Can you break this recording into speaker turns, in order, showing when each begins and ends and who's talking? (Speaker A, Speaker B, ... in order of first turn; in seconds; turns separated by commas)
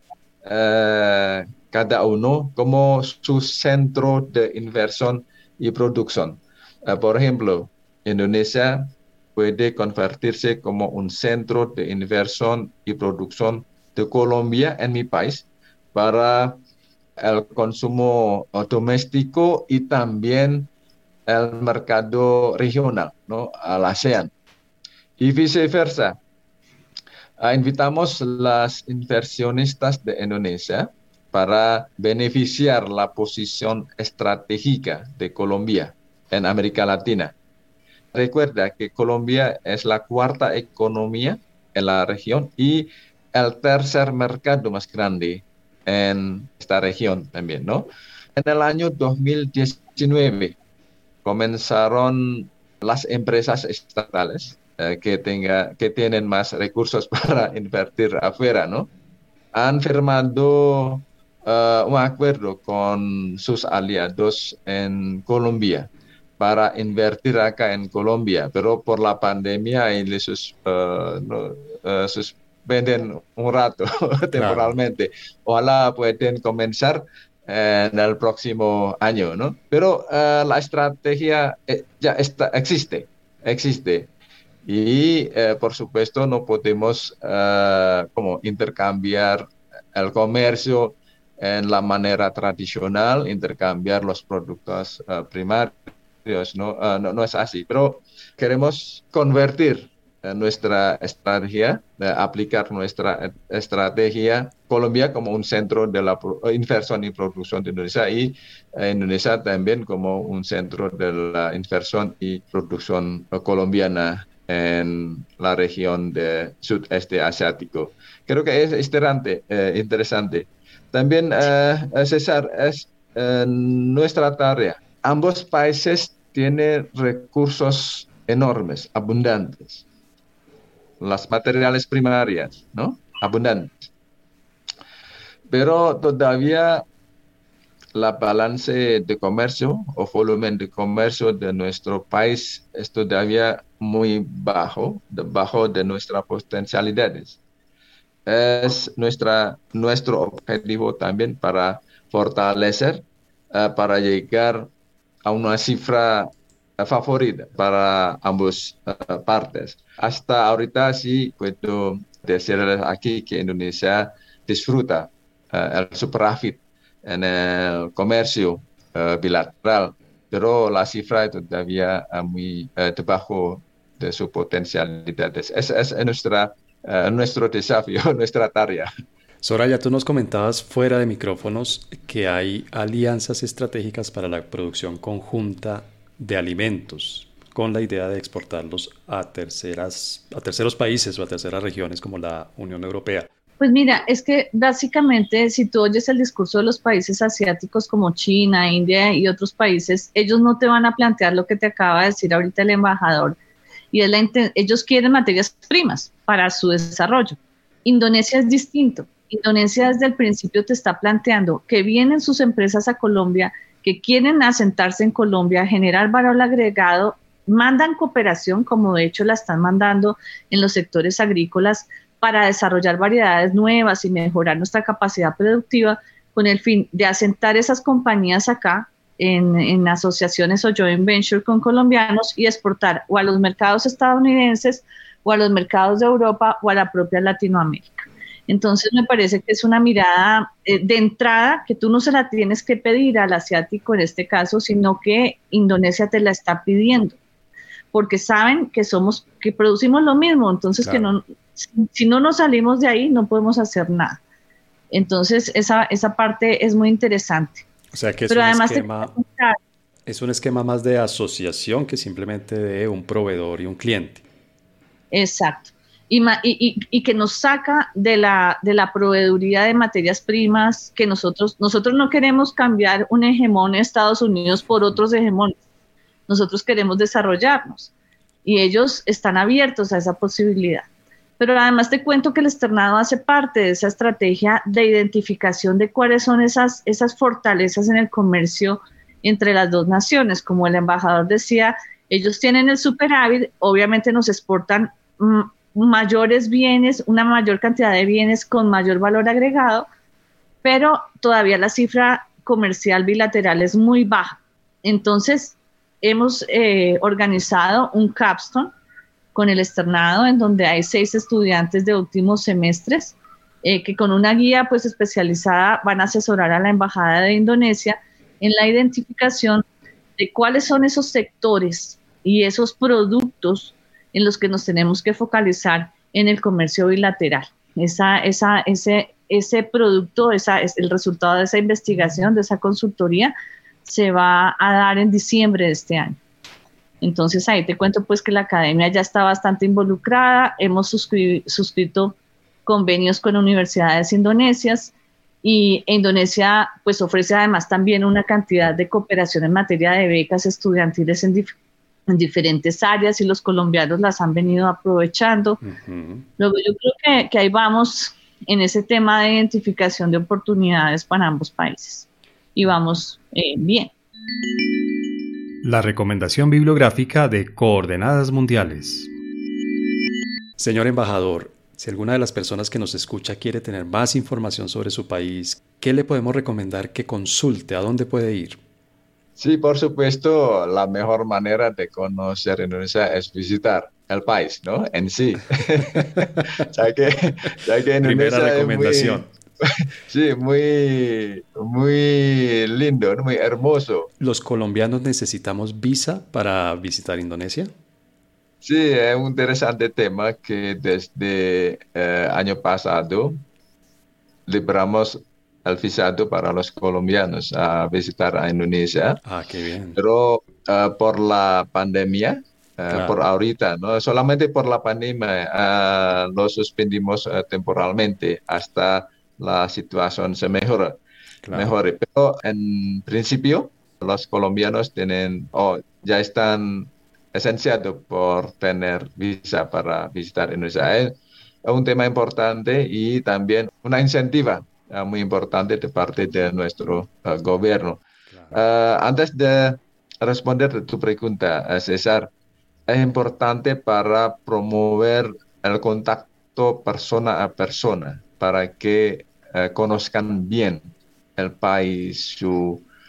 Speaker A: 0.4-16.6, Speaker A: 17.2-20.7, Speaker A: 21.3-24.3, Speaker A: 25.2-26.2, Speaker A: 27.4-37.3, Speaker A: 38.1-50.6, Speaker A: 51.2-58.9, Speaker A: 59.5-84.1, Speaker B: 74.4-74.7, Speaker A: 84.6-129.8, Speaker A: 131.0-133.7, Speaker A: 135.5-136.8, Speaker A: 137.9-147.4, Speaker A: 148.3-154.7, Speaker A: 155.2-178.9, Speaker B: 179.4-193.3, Speaker C: 193.6-203.4, Speaker C: 203.9-247.2, Speaker C: 247.9-254.2, Speaker C: 254.9-257.6, Speaker B: 257.9-259.1, Speaker C: 258.3-259.6, Speaker B: 260.1-264.2, Speaker C: 265.1-275.6, Speaker C: 276.3-277.9, Speaker C: 278.4-280.9, Speaker C: 281.4-299.9, Speaker C: 300.6-308.7, Speaker C: 309.3-319.6, Speaker C: 320.2-333.3, Speaker C: 333.9-336.2, Speaker C: 337.0-351.5, Speaker C: 352.1-355.6, Speaker B: 355.6-356.3, Speaker C: 356.4-363.9, Speaker B: 365.6-369.1, Speaker B: 370.6-378.6, Speaker A: 379.4-394.1, Speaker B: 388.0-389.3, Speaker B: 394.2-397.7, Speaker A: 398.6-403.4, Speaker A: 404.5-409.2, Speaker B: 409.2-410.0, Speaker A: 409.9-420.9, Speaker A: 421.5-442.3, Speaker B: 438.3-438.6, Speaker A: 442.9-452.8